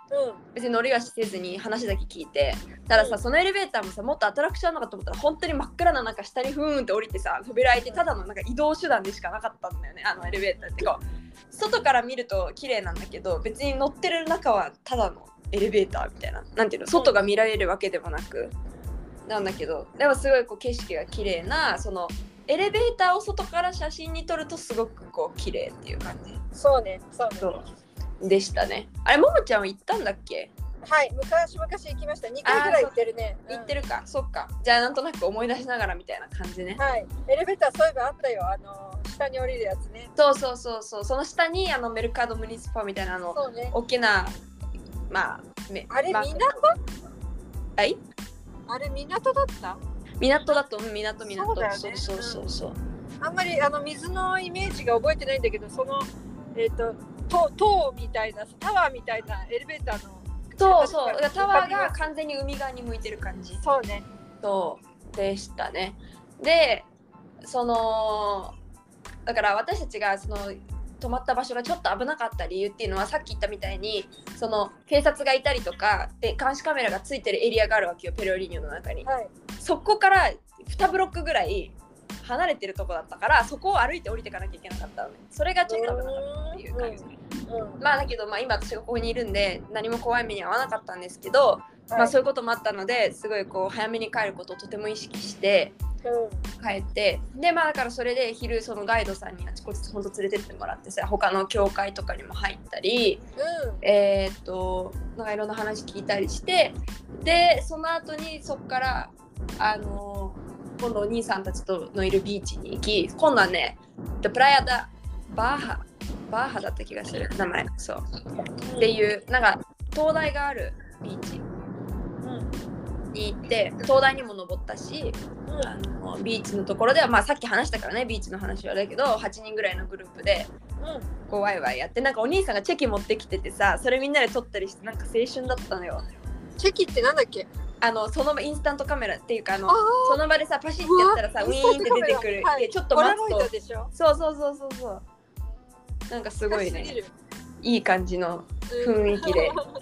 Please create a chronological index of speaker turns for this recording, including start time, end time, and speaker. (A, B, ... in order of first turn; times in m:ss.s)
0:00.1-0:00.4 A
0:00.6-0:18.5 B
0:19.3-0:26.4 B
0:26.5-0:27.5 A
0:28.2-0:30.5 B
0:30.8-0:33.7 A
0:32.4-0:32.9 B
0:33.5-0:36.8 B
0:36.8-0:40.1 A
0:40.2-0:44.3 B
0:43.3-0:43.8 A
0:45.1-0:46.6 B
0:45.9-0:46.8 A
0:48.7-0:49.8 A
0:50.2-0:52.8 B
0:51.3-0:52.4 A
0:53.2-1:02.0 A
1:00.6-1:03.6 B
1:03.6-1:04.0 A
1:04.4-1:06.9 B
1:07.4-1:08.6 B
1:09.3-1:19.1 B
1:19.0-1:19.3 A
1:19.6-1:27.1 B
1:25.7-1:27.8 A
1:27.8-1:35.8 B
1:31.9-1:32.2 A
1:36.0-1:36.4 A
1:36.6-1:43.2 B
1:43.4-1:43.8 A
1:43.8-1:58.0 B
1:58.6-1:58.9 A
1:58.8-2:01.4 B
2:02.2-2:02.5 A
2:03.1-2:10.5 B
2:05.5-2:05.7 A
2:10.8-2:11.1 A
2:11.3-2:16.1 B
2:16.6-2:17.5 A
2:17.8-2:25.0 B
2:19.7-2:20.2 A
2:20.8-2:23.9 A
2:26.1-2:26.9 B
2:26.5-2:27.1 A
2:27.6-2:29.6 B
2:28.7-2:29.7 A